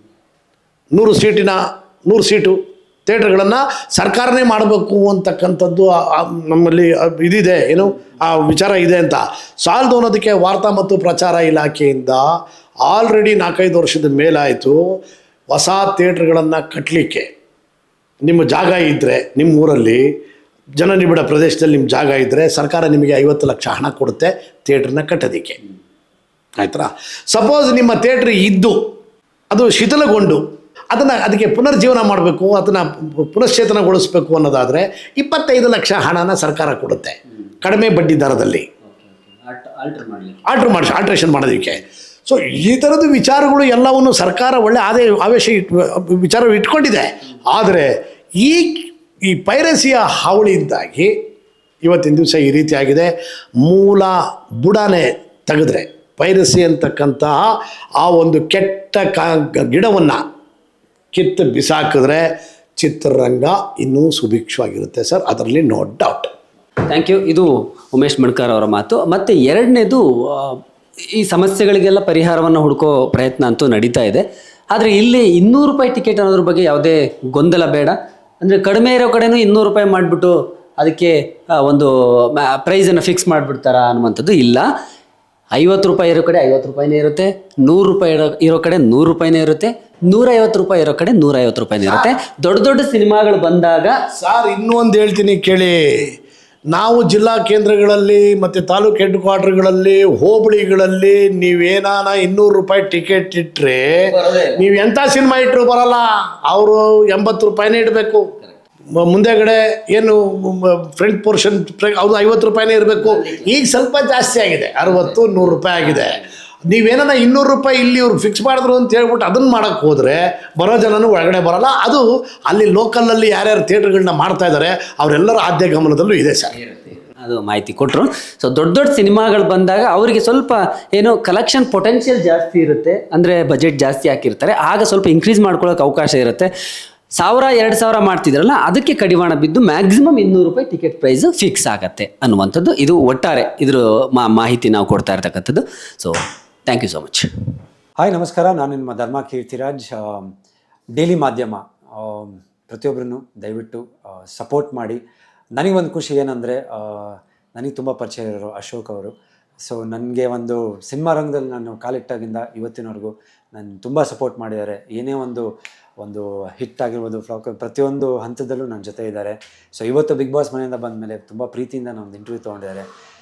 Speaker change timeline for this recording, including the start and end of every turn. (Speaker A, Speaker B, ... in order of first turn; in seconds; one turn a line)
Speaker A: 0.9-12.3
Speaker A: 12.8-15.0
Speaker A: 15.5-17.3
Speaker A: 18.2-20.1
Speaker A: 20.8-25.6
Speaker A: 26.6-28.8
Speaker A: 29.5-38.6
Speaker B: 38.9-40.4
Speaker A: 40.5-51.1
Speaker A: 51.8-60.2
Speaker A: 61.1-66.3
Speaker B: 66.9-84.7
Speaker B: 85.5-94.0
Speaker A: 94.2-96.2
Speaker A: 96.7-108.3
Speaker B: 104.0-104.6
Speaker A: 109.0-126.6
Speaker B: 113.0-113.5
Speaker B: 126.6-136.5
Speaker B: 137.2-147.3
Speaker C: 148.0-150.3
Speaker C: 150.9-155.0
Speaker C: 155.6-165.5
Speaker C: 166.0-172.9